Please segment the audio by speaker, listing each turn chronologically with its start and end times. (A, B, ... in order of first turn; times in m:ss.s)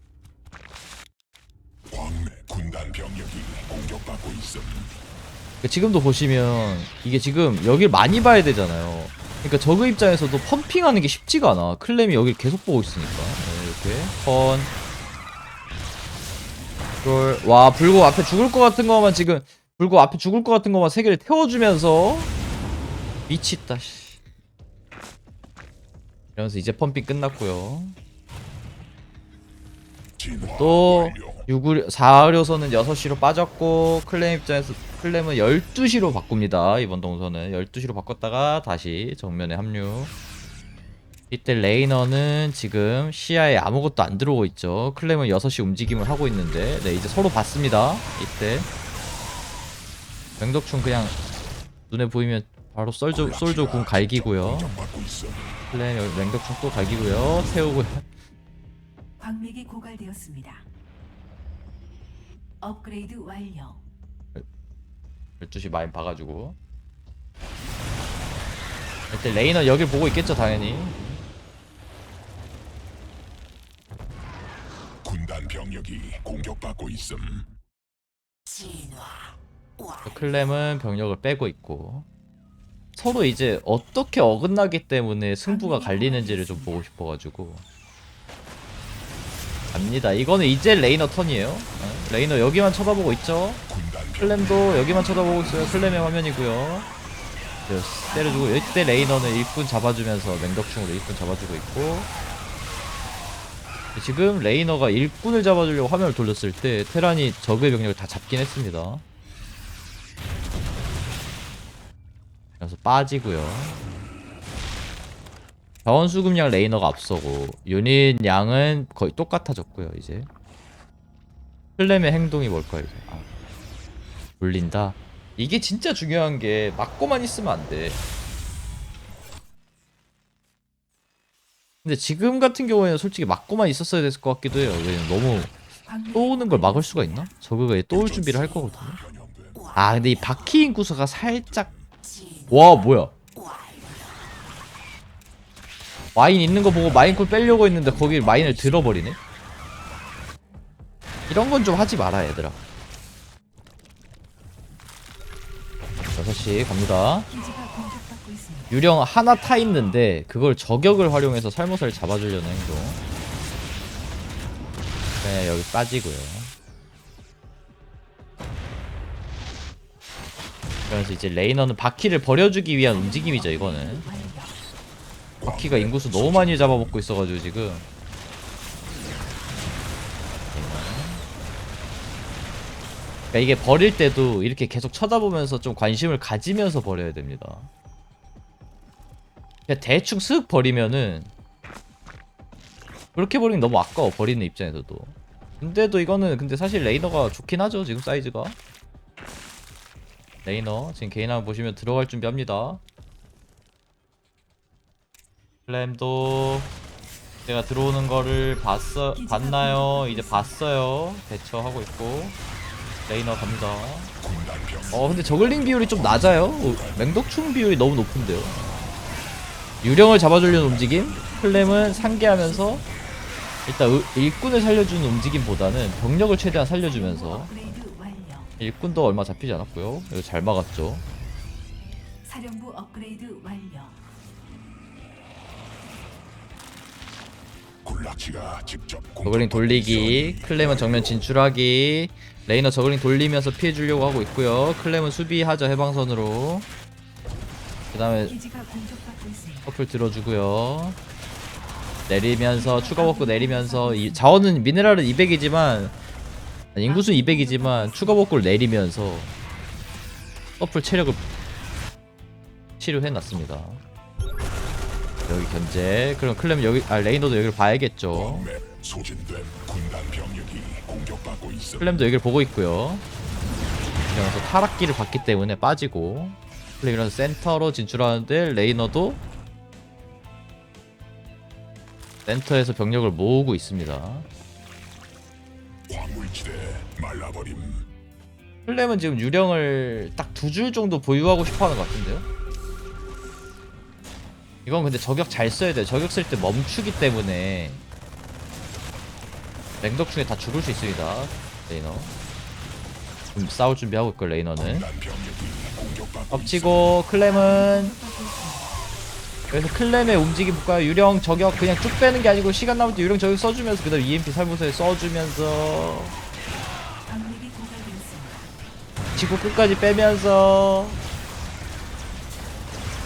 0:01.9-0:04.9 A
0:05.6-0:14.7 B
0:17.0-0:22.3 B
0:23.3-0:24.2 B
0:26.4-0:28.0 B
0:30.2-0:31.5 A
0:30.4-0:40.1 B
0:41.3-0:48.7 B
0:50.4-0:51.2 B
0:51.9-0:54.9 B
0:53.1-0:55.6 A
0:55.7-0:58.1 B
0:59.2-1:00.7 C
1:02.6-1:03.8 C
1:05.4-1:06.6 B
1:09.1-1:11.2 B
1:15.0-1:17.5 A
1:20.0-1:22.1 B
1:22.9-1:27.6 B
1:25.4-1:26.8 C
1:29.7-1:33.6 B
1:33.7-1:34.8 A
1:34.2-1:36.9 B
1:34.7-1:36.1 C
1:37.7-1:42.1 B
1:38.1-1:39.5 C
1:43.9-1:49.0 B
1:52.6-1:53.8 B
1:55.8-2:00.3 B
2:01.8-2:03.2 B
2:04.4-2:08.0 B
2:11.8-2:15.5 B
2:15.8-2:17.3 C
2:16.1-2:19.0 B
2:17.9-2:19.6 A
2:19.7-2:21.7 B
2:21.2-2:21.9 A
2:22.5-2:23.1 B
2:26.1-2:29.2 B
2:27.1-2:29.0 A
2:31.3-2:32.6 B
2:36.1-2:37.3 B
2:37.3-2:38.7 C
2:38.7-2:43.0 B
2:45.2-2:46.5 B
2:50.9-2:54.1 B
2:52.7-2:54.6 C
2:55.4-2:57.0 A
2:55.4-2:57.8 B
3:00.5-3:01.2 B
3:03.3-3:07.7 B
3:09.7-3:11.3 B
3:13.1-3:18.6 B
3:20.4-3:22.8 B
3:25.7-3:26.7 B
3:27.4-3:32.4 B
3:29.1-3:30.6 C
3:33.1-3:34.1 B
3:34.2-3:37.2 A
3:34.9-3:38.8 B
3:39.8-3:42.8 B
3:40.5-3:41.2 A
3:41.2-3:42.9 C
3:43.7-3:47.5 B
3:46.8-3:48.5 C
3:48.6-3:51.0 B
3:52.2-3:54.0 C
3:57.8-4:01.2 A
3:59.2-4:06.7 B
4:07.9-4:08.4 B
4:08.2-4:09.7 C
4:09.6-4:11.0 B
4:12.1-4:16.0 B
4:12.5-4:14.5 C
4:16.7-4:19.3 B
4:16.8-4:18.4 C
4:20.6-4:21.2 B
4:22.8-4:23.8 B
4:25.3-4:28.5 B
4:28.1-4:32.1 A
4:31.8-4:33.0 B
4:34.1-4:39.2 B
4:42.2-4:44.3 B
4:45.9-4:47.9 A
4:48.6-4:52.2 B
4:54.6-4:57.8 B
4:59.8-5:02.1 B
5:03.3-5:04.9 B
5:04.6-5:07.0 A
5:06.3-5:07.9 B
5:07.2-5:08.8 C
5:09.5-5:16.1 B
5:17.0-5:18.5 C
5:19.1-5:21.0 B